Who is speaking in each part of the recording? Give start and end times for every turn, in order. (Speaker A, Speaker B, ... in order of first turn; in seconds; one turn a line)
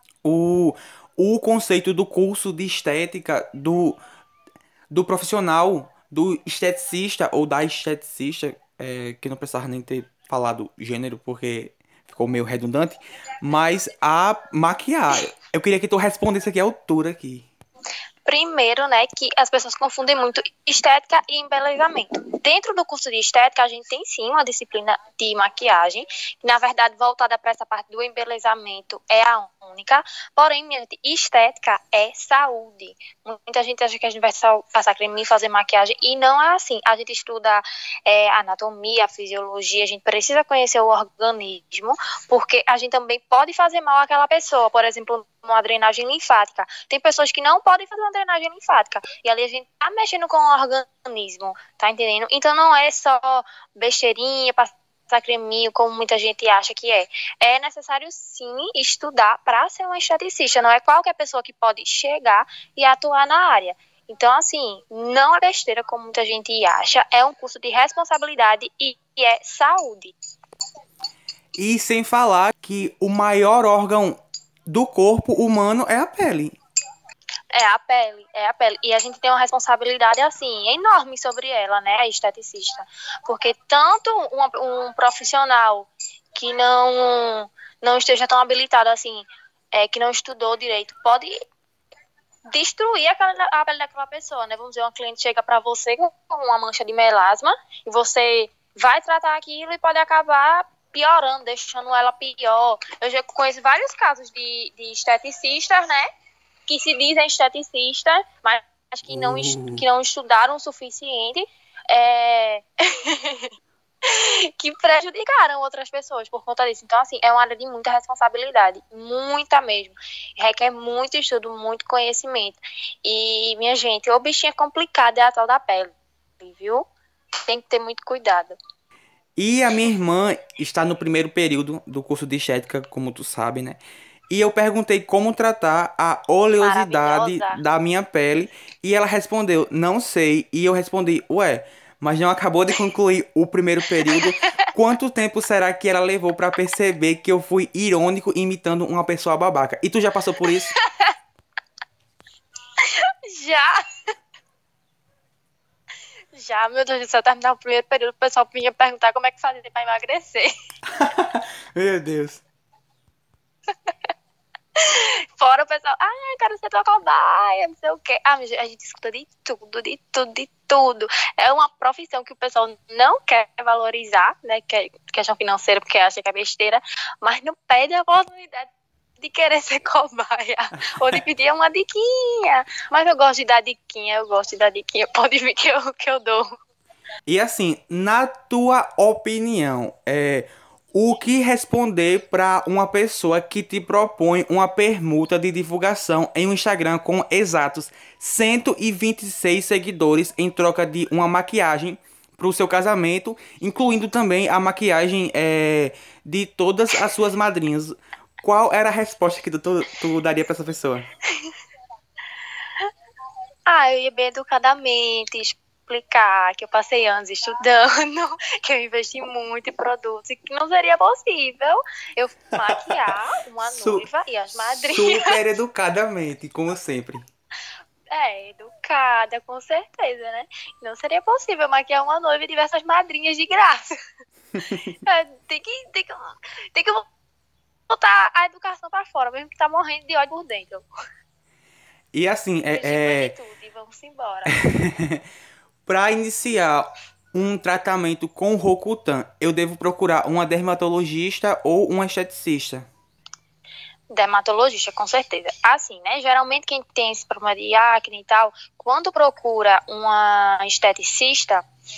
Speaker A: 0.2-4.0
Speaker A: 4.9-17.5
Speaker B: 18.3-70.1
Speaker A: 71.6-76.6
Speaker B: 77.5-91.3
Speaker B: 92.5-106.1
Speaker B: 106.7-113.5
Speaker A: 109.1-109.8
Speaker B: 114.0-126.9
Speaker B: 127.5-128.6
Speaker A: 129.4-150.7
Speaker B: 136.6-137.6
Speaker B: 144.1-144.5
Speaker B: 150.7-151.1
Speaker B: 152.8-153.8
Speaker B: 156.3-160.5
Speaker A: 160.9-162.4
Speaker B: 164.8-186.5
Speaker A: 187.3-211.1
Speaker B: 213.7-225.4
Speaker A: 223.6-224.1
Speaker A: 224.6-227.3
Speaker B: 228.1-233.9
Speaker A: 234.6-234.9
Speaker B: 235.0-237.1
Speaker B: 237.9-240.9
Speaker A: 242.1-243.3
Speaker B: 242.7-244.6
Speaker A: 244.5-245.2
Speaker A: 245.9-252.9
Speaker B: 254.1-261.6